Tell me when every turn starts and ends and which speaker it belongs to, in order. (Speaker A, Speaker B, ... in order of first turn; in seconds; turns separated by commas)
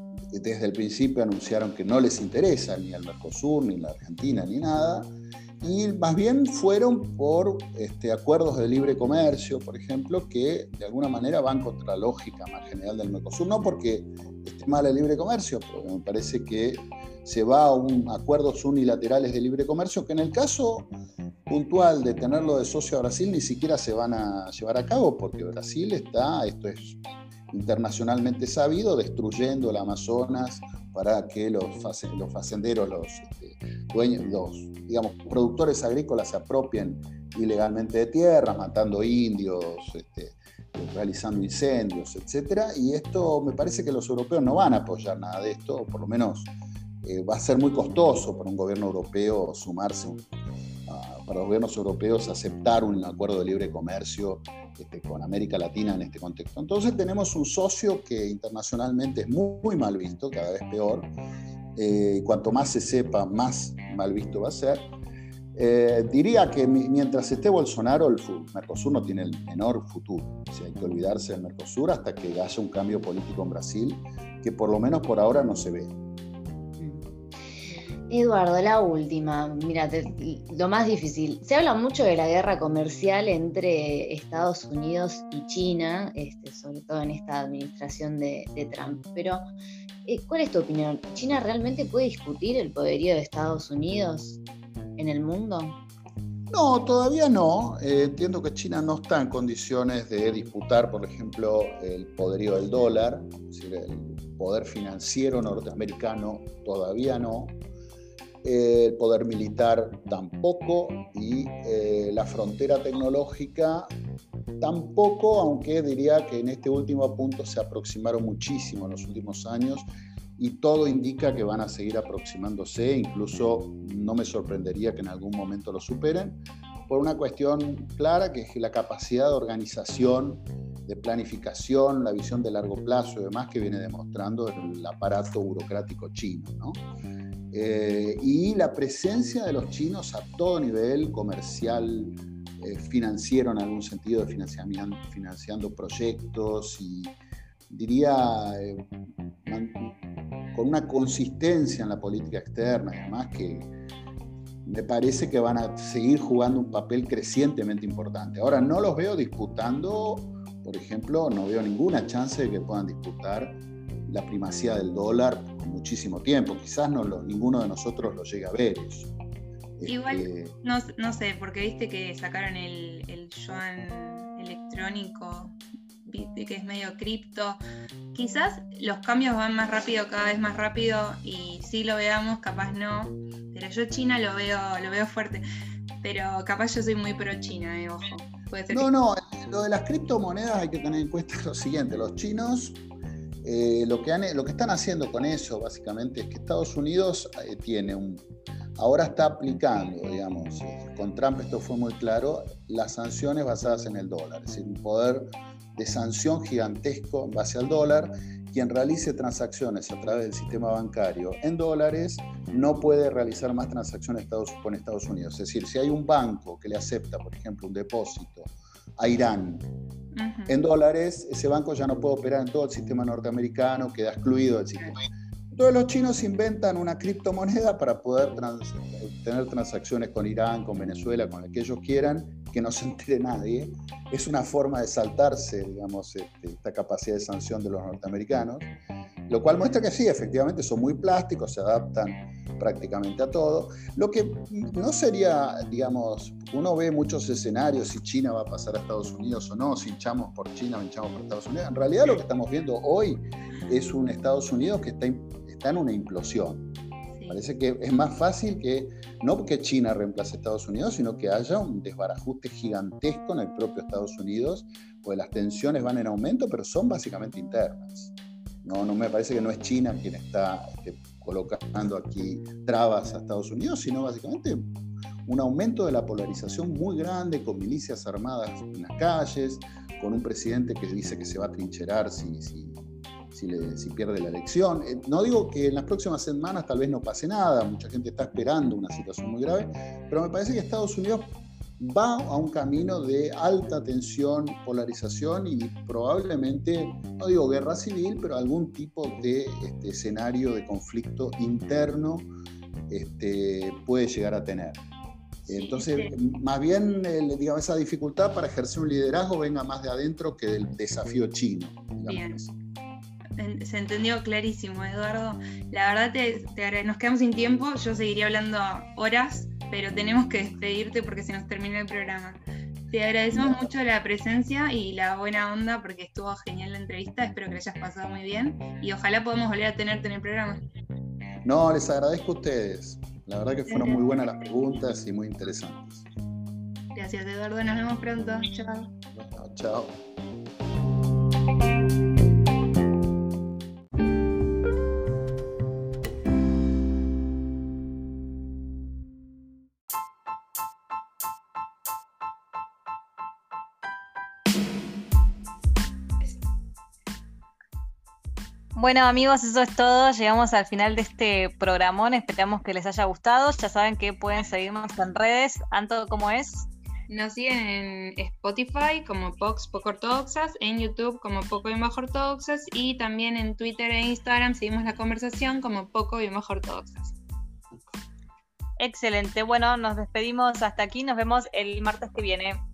Speaker A: 0.3-20.9, Speaker A: 21.5-46.5, Speaker A: 47.0-50.2, Speaker A: 50.9-61.1, Speaker A: 61.8-64.9, Speaker A: 65.5-75.9, Speaker B: 76.8-77.1, Speaker B: 78.1-89.4, Speaker B: 90.0-94.4, Speaker B: 95.0-95.8, Speaker A: 96.5-107.6, Speaker A: 108.4-113.9, Speaker A: 114.6-136.8, Speaker A: 137.5-147.1, Speaker A: 147.7-148.8, Speaker A: 149.4-149.9, Speaker A: 150.5-153.7, Speaker A: 154.6-169.1, Speaker A: 169.8-170.5, Speaker C: 169.9-177.6, Speaker C: 178.1-185.4, Speaker C: 186.0-188.9, Speaker A: 188.7-192.8, Speaker A: 193.4-198.2, Speaker A: 198.8-219.7, Speaker C: 220.1-220.6, Speaker A: 220.5-238.7, Speaker A: 239.3-256.7, Speaker C: 257.1-257.4, Speaker A: 257.3-268.1, Speaker A: 268.6-274.7, Speaker A: 275.2-282.8, Speaker A: 283.3-302.3, Speaker A: 302.9-304.8, Speaker C: 305.5-306.1, Speaker A: 305.5-312.5, Speaker C: 312.1-312.4, Speaker C: 313.4-330.6, Speaker A: 323.3-323.6, Speaker A: 331.4-336.1, Speaker C: 333.7-334.0, Speaker C: 336.9-338.9, Speaker A: 339.1-340.0, Speaker D: 358.7-366.7, Speaker C: 367.1-377.1, Speaker D: 378.8-382.6